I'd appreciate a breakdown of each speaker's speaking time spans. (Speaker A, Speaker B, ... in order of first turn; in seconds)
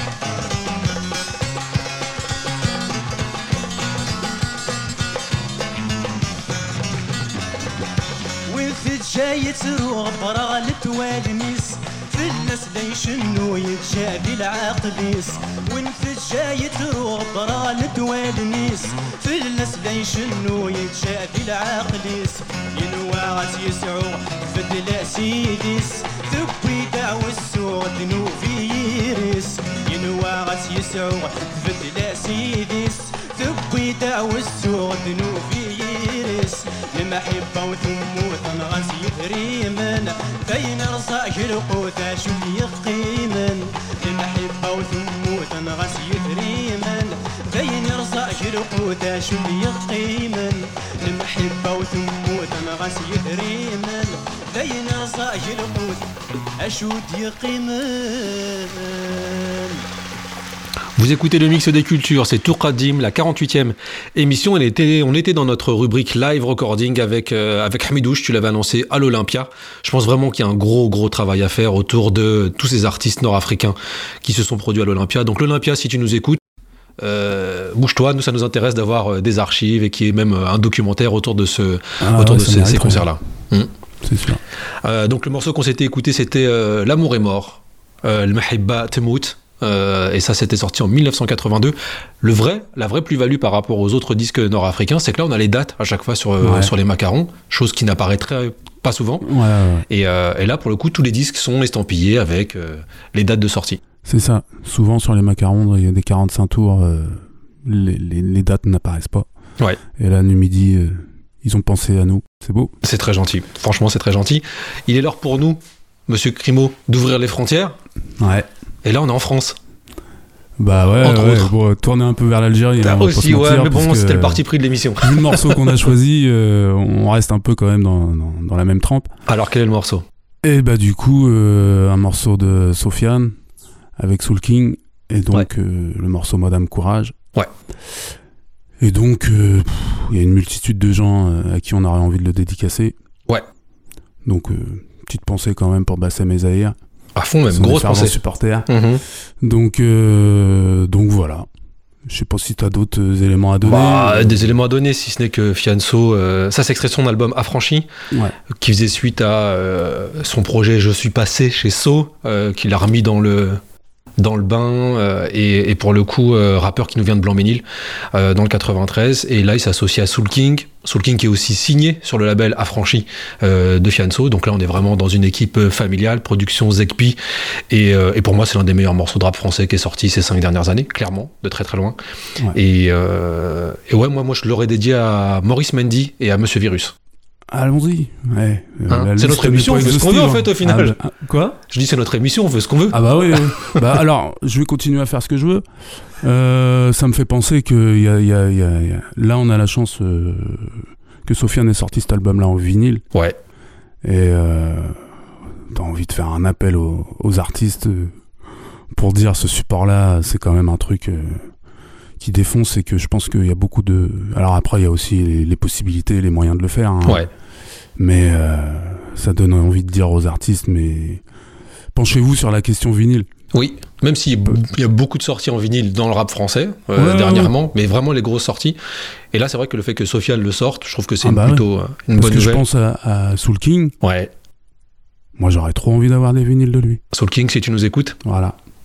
Speaker A: 8.5-59.8
Speaker B: 61.0-76.4, 77.0-83.7, 84.8-99.2, 99.9-103.8, 112.8-117.7, 118.8-119.5, 121.0-121.5, 122.8-125.4, 129.3-130.0, 147.2-149.0, 153.6-157.9, 158.5-163.6, 164.2-177.2, 177.7-182.0, 182.5-186.9, 188.9-191.0, 191.7-193.0, 223.5-228.8, 229.3-232.6, 234.0-234.3, 237.1-238.2
Speaker C: 82.0-83.0, 84.0-84.4, 96.4-96.7, 99.2-99.8, 104.0-109.3, 109.9-112.7, 118.2-118.5, 120.6-124.4, 125.0-129.1, 130.4-133.4, 134.0-137.2, 138.8-142.9, 144.2-146.8, 147.5-148.7, 149.4-151.5, 152.1-154.5, 187.5-191.6, 192.9-195.6, 196.2-203.0, 204.0-205.0, 205.7-208.2, 208.9-211.5, 212.2-217.3, 218.0-221.2, 221.9-223.3, 226.9-227.5, 231.2-233.9, 235.3-237.0, 238.2-238.5